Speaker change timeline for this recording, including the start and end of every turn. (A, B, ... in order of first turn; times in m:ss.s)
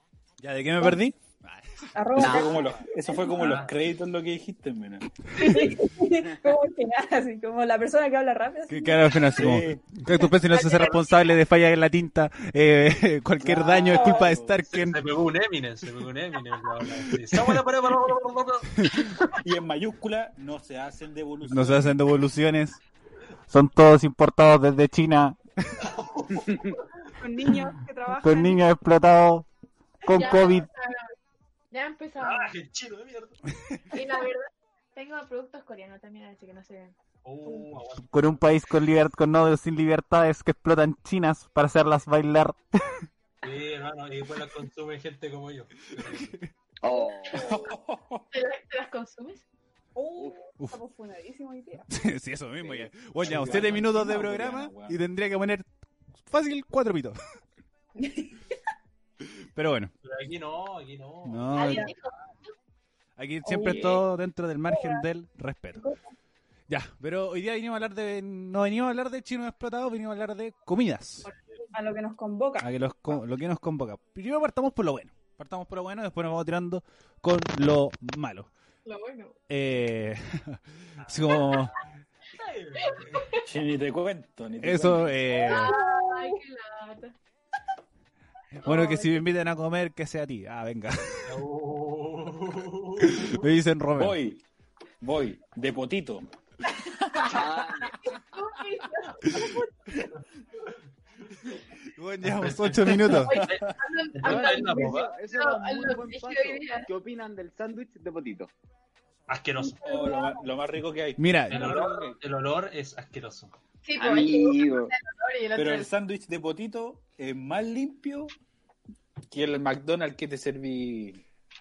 0:00.4-0:01.9 A
0:01.9-0:03.6 B
0:02.2-0:02.6 C
0:02.2-0:05.5 D
0:03.3-0:03.7 E
0:05.4-0:09.0 B
0:08.7-0:15.0 A
0:09.3-0:09.8 D
0:10.5-0:11.0 F
0:13.4-0:14.6 D
0:14.7-0:18.9 E
0:17.3-0:17.6 A
0:18.8-0:19.1 A
0:19.0-0:22.0 D
0:21.5-0:22.8 A
0:23.5-0:25.8 A
0:25.8-0:26.8 E
0:26.4-0:26.7 C
0:27.2-0:28.6 B
0:28.2-0:29.5 A
0:30.1-0:30.7 A
0:30.1-0:31.1 F
0:31.7-0:32.5 F
0:32.2-0:33.4 E
0:33.9-0:37.0 F
0:37.2-0:38.4 E
0:38.1-0:42.6 A
0:43.4-0:46.3 E
0:46.0-0:46.5 A
0:46.8-0:47.6 C
0:47.4-0:48.3 D
0:48.3-0:49.4 F
0:50.0-0:51.9 B
0:51.9-0:55.7 A
0:53.2-0:55.0 D
0:56.3-0:57.2 A
0:58.0-0:58.3 B
0:59.5-0:59.9 A
1:00.0-1:02.1 E
1:01.3-1:01.9 A
1:01.5-1:02.2 F
1:03.2-1:05.8 A
1:03.4-1:04.0 B
1:04.7-1:05.1 B
1:05.8-1:06.1 B
1:06.7-1:11.3 A
1:11.7-1:12.7 B
1:12.6-1:18.5 A
1:18.8-1:19.4 F
1:19.5-1:21.7 A
1:21.0-1:21.8 E
1:22.3-1:23.4 E
1:22.9-1:23.4 F
1:23.4-1:25.2 D
1:24.6-1:25.7 A
1:25.3-1:27.2 F
1:25.4-1:26.4 B
1:28.6-1:31.4 A
1:28.7-1:29.1 F
1:28.7-1:29.0 B
1:31.3-1:33.4 E
1:33.0-1:34.2 A
1:34.0-1:34.4 D
1:35.0-1:36.3 D
1:36.8-1:37.4 D
1:37.2-1:38.0 C
1:37.3-1:40.0 F
1:41.9-1:43.4 A
1:42.3-1:45.0 E
1:43.0-1:46.9 F
1:43.2-1:45.0 D
1:44.2-1:48.5 C
1:49.3-1:50.1 E
1:49.8-1:52.2 D
1:49.9-1:50.4 B
1:51.2-1:51.8 A
1:51.5-1:53.5 E
1:53.8-1:55.9 F
1:54.0-1:54.9 C
1:55.6-1:58.3 D
1:59.3-2:01.2 D